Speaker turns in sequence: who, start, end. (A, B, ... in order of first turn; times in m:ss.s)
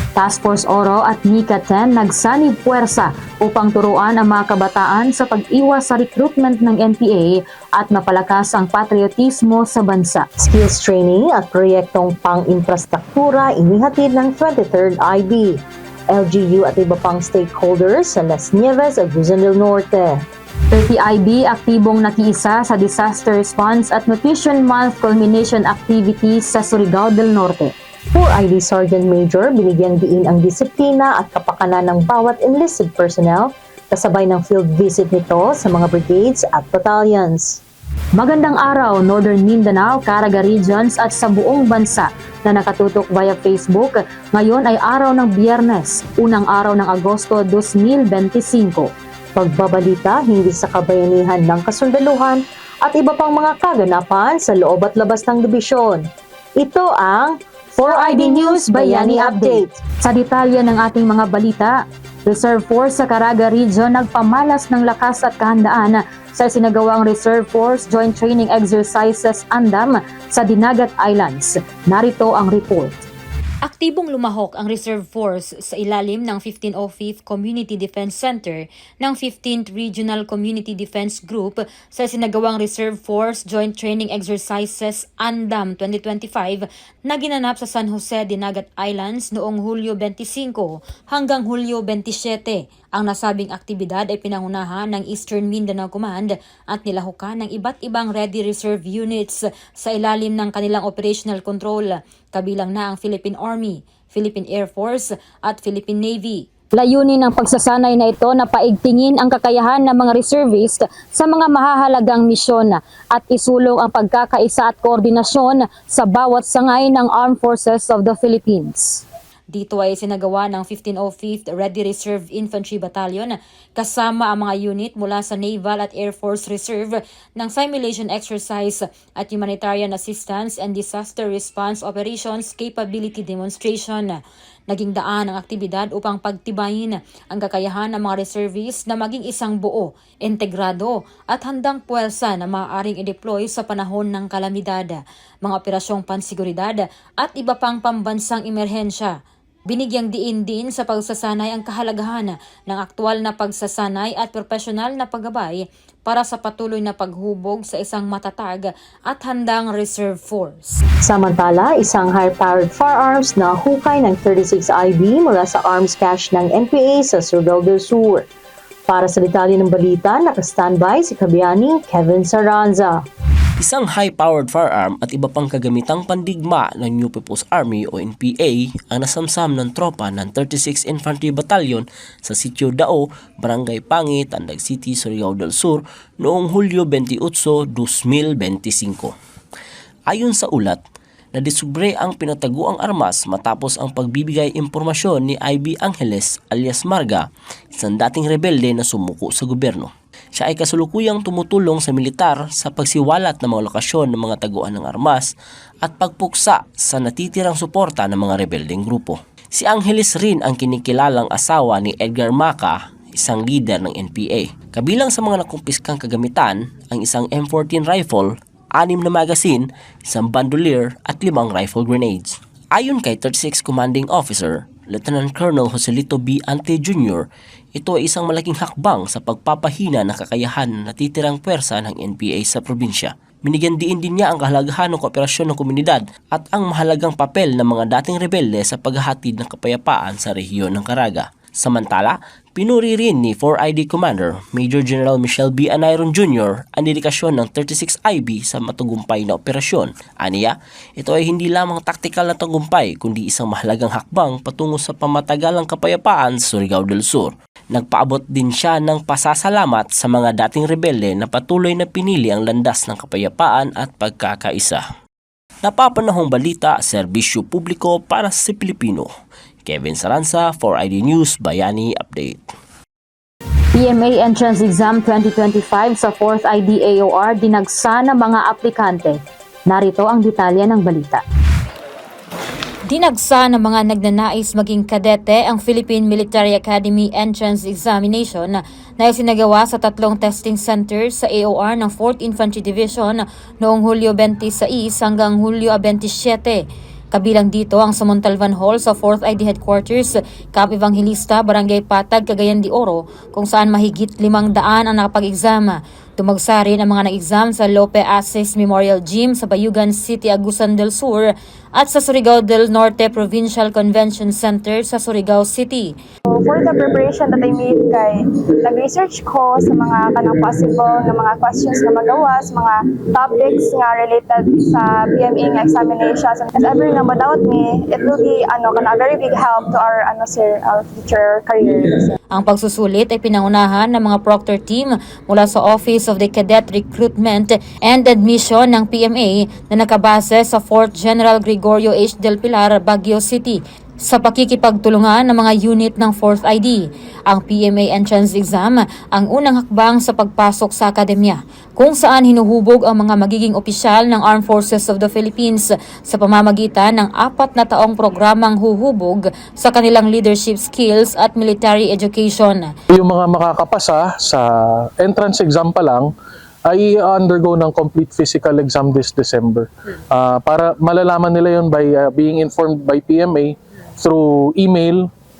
0:00.2-0:10.2 A
0:10.4-0:20.2 B
0:20.7-0:27.7 A
0:28.1-0:37.6 B
0:38.2-0:48.9 A
0:49.4-0:56.1 B
0:56.6-0:59.8 B
0:57.9-1:01.7 A
1:02.3-1:13.0 A
1:13.6-1:46.5 C
1:46.8-1:59.0 A
1:59.5-2:14.2 C
2:14.7-2:29.1 C
2:29.7-2:40.8 C
2:41.0-2:48.2 B
2:48.9-2:53.0 B
2:53.6-3:09.1 D
3:10.1-3:10.8 D
3:11.4-3:25.3 D
3:25.8-4:24.8 D
4:25.6-4:29.1 D
4:29.6-4:32.5 D
4:33.7-4:39.2 A
4:39.7-4:41.2 A
4:42.9-5:15.9 C
5:16.3-5:32.1 E
5:32.3-6:02.7 C
6:02.9-6:04.5 F
6:05.0-6:06.1 F
6:06.7-6:15.1 F